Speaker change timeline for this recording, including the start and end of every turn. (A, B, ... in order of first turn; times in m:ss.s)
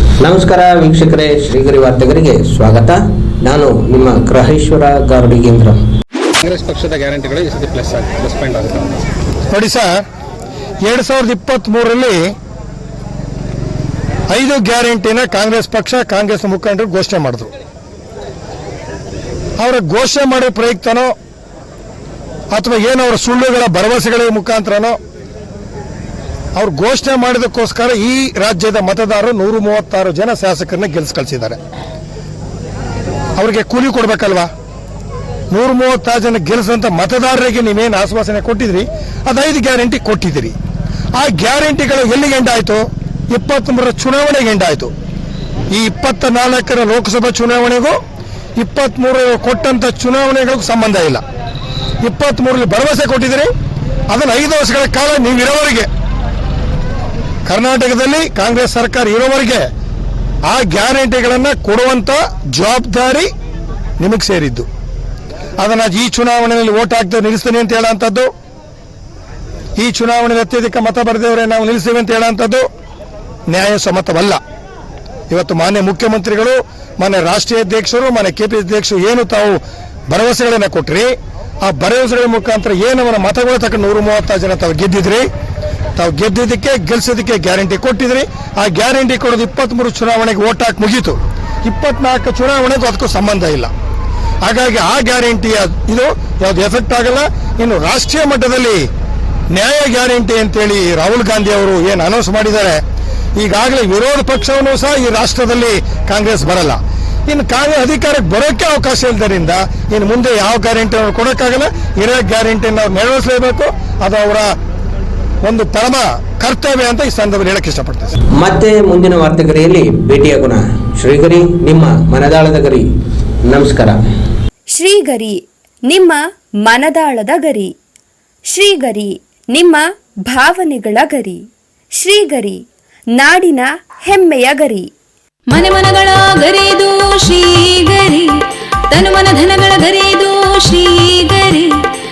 0:00.2-0:05.8 A
0:06.5-0:09.0 B
0:09.5-0:10.0 C
0:10.8-0:12.3 C
0:14.3-0:17.5 C
0:19.6-0:21.1 C
0:22.5-0:25.0 C
0:26.6-0:31.6 C
0:33.4-0:34.5 C
0:35.5-0:40.6 C
0:41.2-0:44.9 C
0:45.7-0:47.9 C
0:48.6-0:51.2 C
0:52.0-0:53.5 C
0:54.1-0:55.9 C
0:57.5-0:59.6 C
1:00.5-1:03.3 C
1:04.0-1:04.7 C
1:05.6-1:08.3 C
1:09.8-1:12.6 C
1:13.5-1:14.4 C
1:15.3-1:25.2 C
1:26.0-1:33.7 C
1:34.4-1:38.8 C
1:39.5-1:42.8 C
1:43.4-1:54.5 C
1:55.4-1:58.1 C
1:58.4-2:02.8 A
2:03.4-2:04.0 A
2:04.7-2:07.7 D
2:08.5-2:11.4 D
2:12.0-2:12.6 D
2:13.2-2:14.9 D
2:15.5-2:18.3 E
2:18.9-2:21.7 E